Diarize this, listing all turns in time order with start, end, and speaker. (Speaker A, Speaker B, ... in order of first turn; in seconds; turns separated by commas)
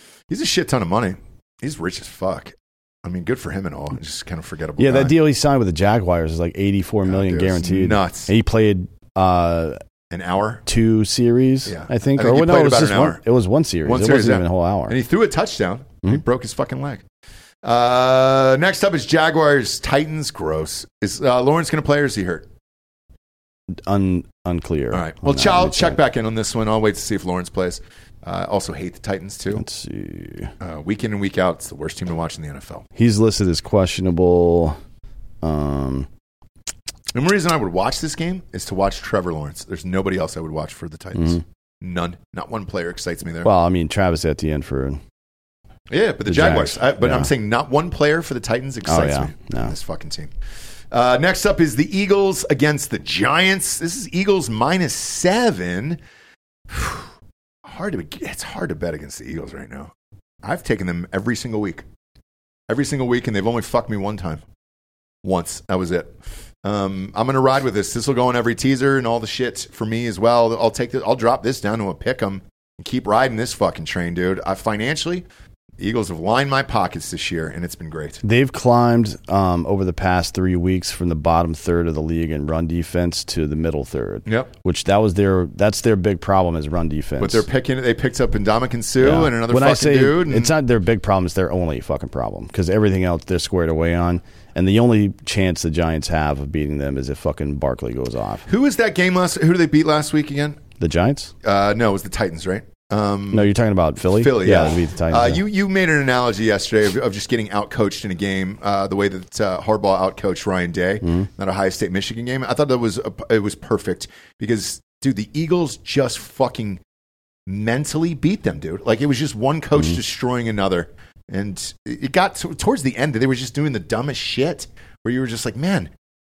Speaker A: 0.3-5.2, Speaker B: 4.8-9.8, Speaker A: 7.0-8.3, Speaker A: 10.1-10.6, Speaker B: 10.7-15.0, Speaker A: 11.7-13.2, Speaker A: 13.8-17.0, Speaker A: 17.6-22.5, Speaker B: 23.8-26.0, Speaker A: 24.9-29.6, Speaker B: 29.5-30.5, Speaker A: 30.6-32.9, Speaker B: 33.0-34.8, Speaker B: 35.4-36.1, Speaker A: 37.1-43.5, Speaker B: 41.2-41.4, Speaker B: 43.4-45.0, Speaker A: 45.9-50.3, Speaker B: 46.2-47.3, Speaker B: 48.9-49.7, Speaker A: 50.9-56.0, Speaker A: 56.7-57.1, Speaker A: 57.6-61.9, Speaker A: 62.7-64.4, Speaker A: 65.2-75.2, Speaker A: 75.8-78.2, Speaker B: 78.2-87.5, Speaker A: 84.3-84.5, Speaker A: 87.2-90.5, Speaker B: 89.0-98.5, Speaker A: 98.5-100.6, Speaker B: 100.8-101.3, Speaker A: 101.4-103.5, Speaker B: 103.3-105.4, Speaker A: 104.1-116.8, Speaker B: 111.0-111.3, Speaker A: 117.5-125.9